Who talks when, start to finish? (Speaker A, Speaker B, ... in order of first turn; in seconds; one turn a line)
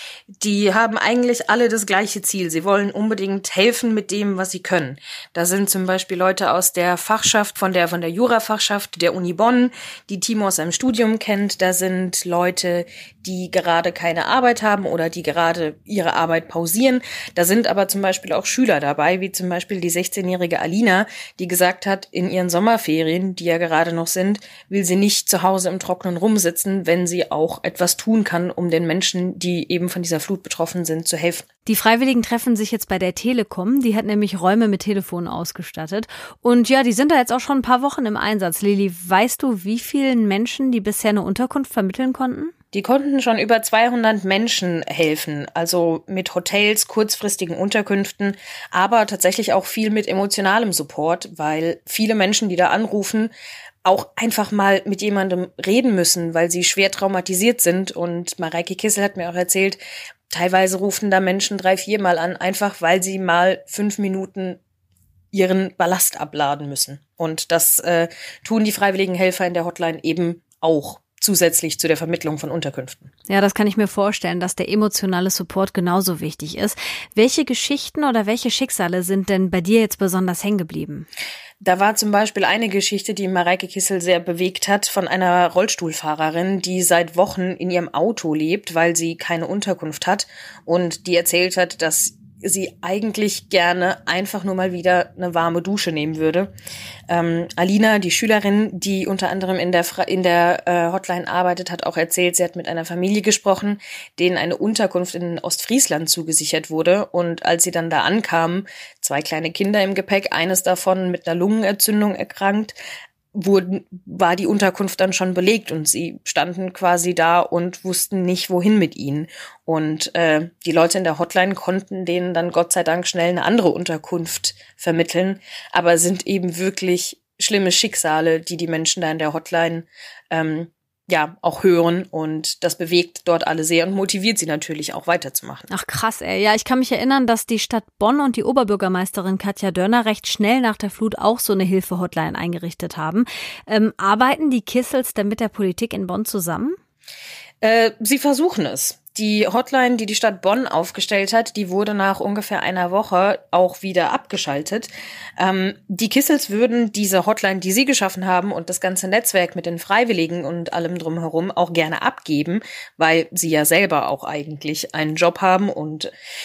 Speaker A: 0.4-31.4
Speaker B: 31.6-42.5
Speaker A: 42.7-53.3
Speaker A: 53.8-64.6
Speaker A: 65.3-73.1
Speaker B: 73.3-81.1
Speaker A: 81.6-96.5
Speaker A: 97.1-112.8
Speaker A: 113.3-135.7
Speaker B: 135.7-146.7
Speaker A: 147.6-166.1